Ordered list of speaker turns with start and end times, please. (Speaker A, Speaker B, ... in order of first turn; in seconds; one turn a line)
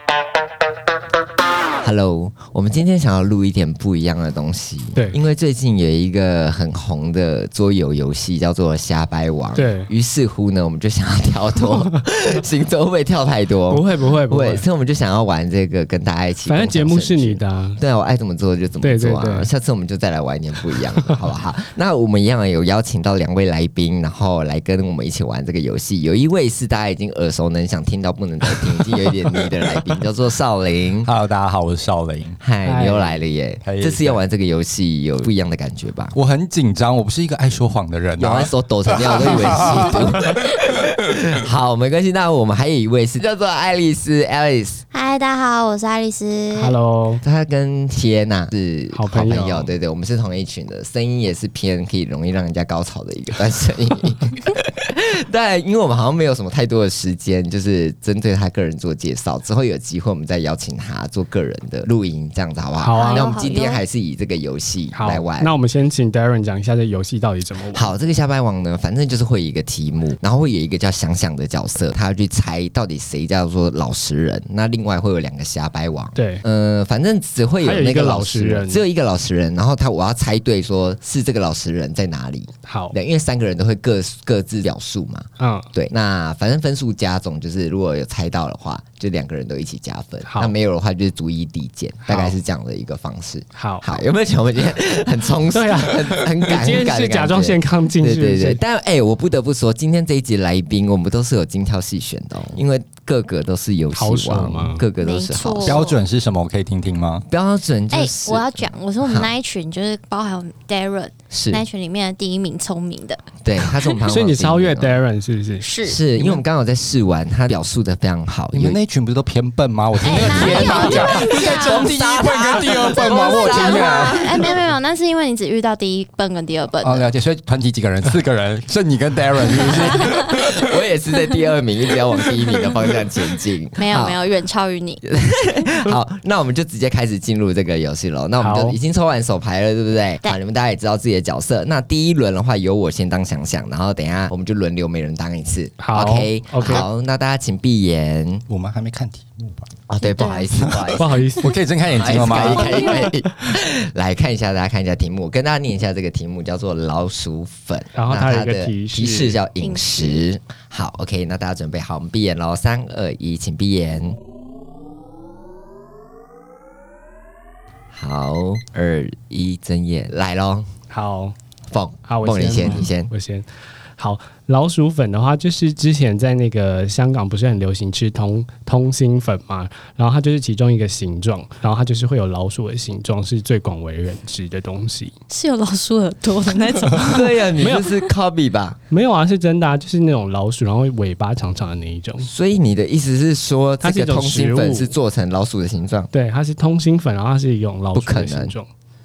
Speaker A: 1.8-31.1
Speaker B: 5.0-5.2
Speaker B: 9.6-9.9
Speaker B: 13.7-14.7
Speaker B: 16.5-17.8
Speaker B: 18.8-19.5
Speaker C: 31.1-32.4
Speaker A: 32.4-36.1
Speaker B: 32.6-33.2
Speaker C: 33.6-34.2
Speaker C: 36.1-41.3
Speaker A: 38.2-44.8
Speaker D: 39.6-40.0
Speaker D: 44.9-46.8
Speaker B: 46.5-47.2
Speaker A: 47.2-65.5
Speaker B: 48.9-49.5
Speaker C: 49.3-49.6
Speaker B: 62.8-63.4
Speaker D: 62.9-63.8
Speaker B: 64.9-67.9
Speaker A: 67.7-105.8
Speaker B: 76.2-76.4
Speaker B: 77.6-78.8
Speaker B: 82.7-83.0
Speaker B: 85.4-85.7
Speaker B: 90.3-90.5
Speaker B: 92.1-92.3
Speaker B: 93.6-93.9
Speaker B: 95.5-98.6
Speaker B: 103.9-104.8
Speaker D: 105.0-106.0
Speaker C: 105.6-107.3
Speaker A: 107.3-109.3
Speaker D: 107.9-113.2
Speaker A: 111.3-111.6
Speaker A: 113.4-115.0
Speaker B: 114.1-115.7
Speaker D: 115.6-116.0
Speaker A: 115.8-118.8
Speaker C: 118.5-124.3
Speaker D: 120.0-121.9
Speaker A: 120.1-124.6
Speaker D: 122.9-127.0
Speaker C: 126.8-130.7
Speaker A: 129.5-134.2
Speaker D: 133.8-135.0
Speaker A: 135.0-148.4
Speaker B: 138.4-138.8
Speaker B: 145.8-146.9
Speaker C: 148.5-149.7
Speaker A: 149.9-151.1
Speaker D: 150.0-150.5
Speaker C: 150.6-152.8
Speaker B: 151.0-151.5
Speaker A: 151.9-164.2
Speaker D: 152.6-153.0
Speaker B: 152.7-153.1
Speaker B: 157.9-159.4
Speaker D: 159.6-160.2
Speaker A: 167.9-170.7
Speaker B: 170.9-171.3
Speaker A: 171.7-173.1
Speaker B: 172.1-173.5
Speaker B: 174.0-185.1
Speaker D: 185.3-187.8
Speaker A: 186.9-188.8
Speaker B: 187.6-187.9
Speaker B: 188.9-192.3
Speaker A: 192.2-196.1
Speaker B: 193.8-194.9
Speaker B: 196.1-198.7
Speaker A: 197.9-198.6